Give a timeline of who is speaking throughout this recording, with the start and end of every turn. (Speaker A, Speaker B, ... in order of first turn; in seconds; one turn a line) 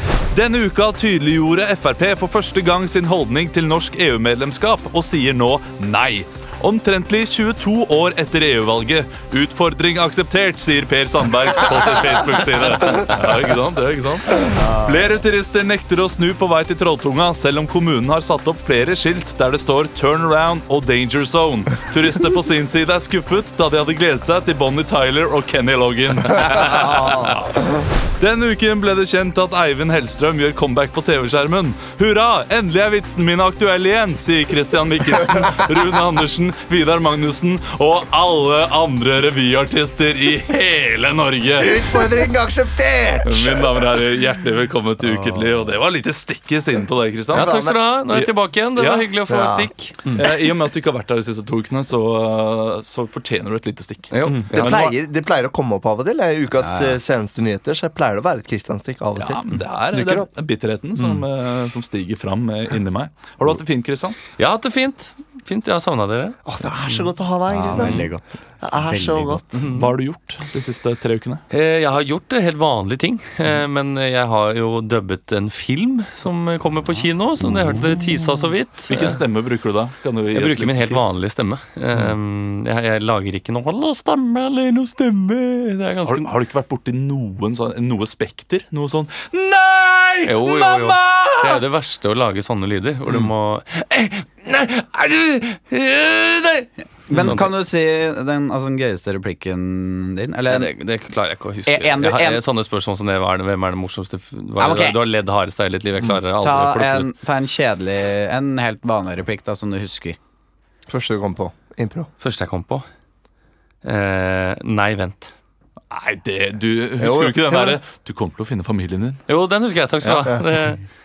Speaker A: 0.3-27.5
Speaker B: 26.4-27.4
Speaker A: 28.2-42.2
Speaker B: 41.6-43.8
Speaker A: 43.2-49.1
Speaker C: 47.3-50.0
Speaker B: 47.3-47.8
Speaker B: 49.3-50.3
Speaker A: 50.1-54.8
Speaker C: 54.1-54.9
Speaker B: 54.2-60.3
Speaker D: 56.6-57.0
Speaker A: 59.1-64.2
Speaker B: 61.0-61.2
Speaker C: 64.3-66.4
Speaker B: 66.4-68.1
Speaker D: 67.5-69.4
Speaker B: 68.6-69.6
Speaker C: 69.5-69.9
Speaker A: 69.7-71.4
Speaker C: 71.5-79.2
Speaker A: 78.9-81.1
Speaker C: 80.3-86.3
Speaker A: 86.0-91.6
Speaker C: 90.2-97.5
Speaker D: 97.1-100.7
Speaker C: 100.5-107.1
Speaker D: 101.7-102.4
Speaker D: 104.6-105.0
Speaker D: 106.4-110.2
Speaker B: 110.9-112.1
Speaker C: 112.2-112.9
Speaker C: 113.8-115.3
Speaker A: 115.9-119.2
Speaker B: 117.0-117.8
Speaker C: 119.3-120.8
Speaker A: 120.0-120.3